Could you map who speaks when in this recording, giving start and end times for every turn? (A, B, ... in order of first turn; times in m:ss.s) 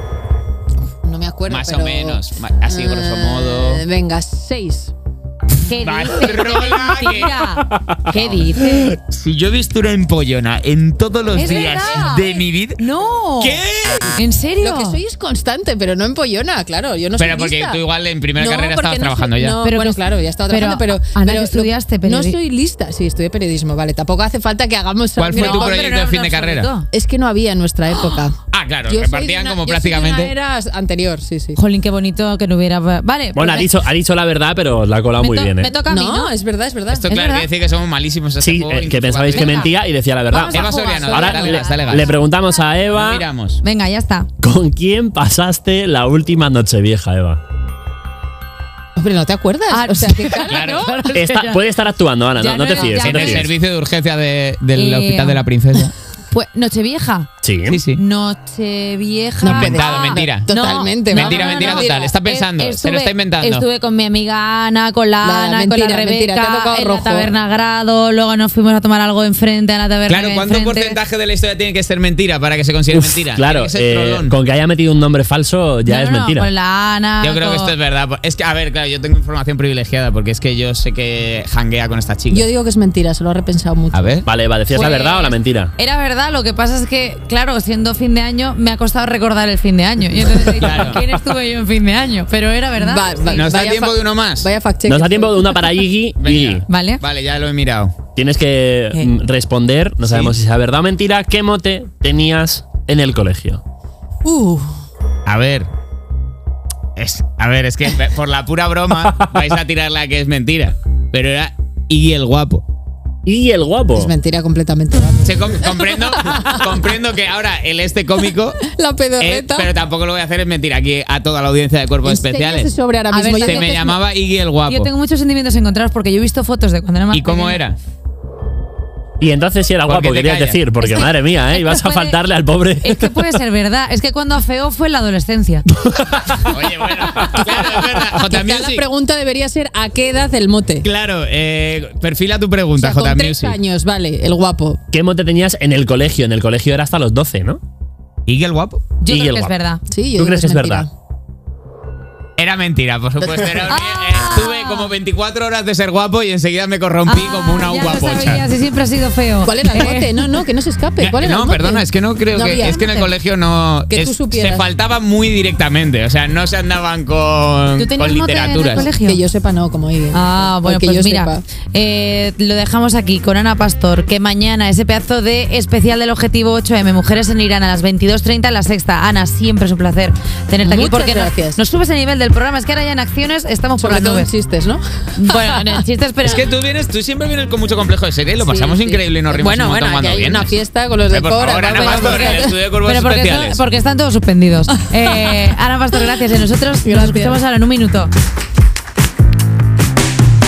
0:01.0-0:04.9 A
0:01.5-0:03.8 B
0:05.7-0:07.4 B
0:05.7-0:09.0 C
0:08.1-0:12.8 B
0:11.3-0:13.6 C
0:13.4-0:14.1 B
0:14.2-0:15.0 C
0:14.6-0:17.8 A
0:17.2-0:19.6 B
0:18.4-0:25.8 A
0:19.6-0:22.4 C
0:25.2-0:26.7 B
0:25.3-0:26.9 C
0:26.9-0:28.4 A
0:28.5-0:30.3 B
0:28.9-0:31.6 A
0:31.6-0:33.7 C
0:33.3-0:35.7 D
0:35.2-0:36.3 C
0:35.9-0:37.0 A
0:36.9-0:37.5 C
0:37.0-0:39.6 B
0:38.4-0:43.2 D
0:39.3-0:39.7 C
0:40.3-0:42.2 C
0:40.5-0:42.1 B
0:42.9-0:43.6 B
0:43.6-0:44.3 C
0:44.4-0:47.4 D
0:49.0-0:50.5 A
0:49.7-0:51.6 C
0:50.5-0:50.9 B
0:51.1-0:53.5 D
0:52.4-0:53.5 C
0:53.0-0:55.9 B
0:54.7-0:55.4 C
0:56.3-0:57.3 C
0:57.4-0:57.8 D
0:57.7-0:58.0 B
0:57.9-1:11.0 C
0:59.4-1:02.1 A
0:59.4-1:00.5 B
1:01.1-1:03.6 B
1:05.2-1:07.3 A
1:10.1-1:14.3 B
1:12.9-1:16.5 D
1:15.8-1:17.7 C
1:17.2-1:22.5 B
1:22.3-1:24.2 A
1:23.9-1:24.3 B
1:24.2-1:25.7 D
1:24.7-1:33.5 C
1:30.6-1:31.0 B
1:32.8-1:35.5 A
1:33.3-1:34.5 B
1:34.9-1:36.6 D
1:36.2-1:38.0 B
1:36.7-1:37.0 C
1:38.2-1:43.6 D
1:40.0-1:40.3 B
1:44.2-1:44.7 A
1:45.2-1:45.7 B
1:47.0-1:52.6 B
1:49.0-1:49.4 D
1:53.2-1:54.1 D
1:53.9-1:56.6 A
1:55.2-1:58.6 B
1:58.6-1:59.7 A
1:59.2-2:02.7 B
2:02.0-2:04.0 A
2:03.1-2:03.7 C
2:03.4-2:04.9 B
2:04.6-2:07.6 C
2:07.1-2:07.8 B
2:09.2-2:13.1 D
2:09.8-2:10.6 B
2:10.8-2:12.2 C
2:12.8-2:15.6 C
2:15.8-2:16.5 D
2:16.4-2:18.8 B
2:18.2-2:20.9 A
2:20.8-2:23.6 B
2:22.8-2:24.8 A
2:24.9-2:27.6 D
2:28.3-2:29.0 B
2:29.0-2:29.8 C
2:29.0-2:29.5 D
2:29.9-2:30.9 A
2:30.2-2:30.8 D
2:32.4-2:38.4 B
2:33.7-2:34.9 C
2:37.0-2:40.2 C
2:39.4-2:43.0 A
2:41.0-2:48.9 B
2:42.6-2:43.0 C
2:43.9-2:44.6 A
2:47.8-2:49.2 C
2:48.7-2:51.4 A
2:50.1-3:04.3 C
3:00.6-3:01.6 A
3:03.8-3:05.6 A
3:05.2-3:06.4 C
3:06.2-3:10.5 B
3:08.4-3:12.5 A
3:11.1-3:13.6 B
3:11.7-3:18.1 C
3:16.8-3:17.4 A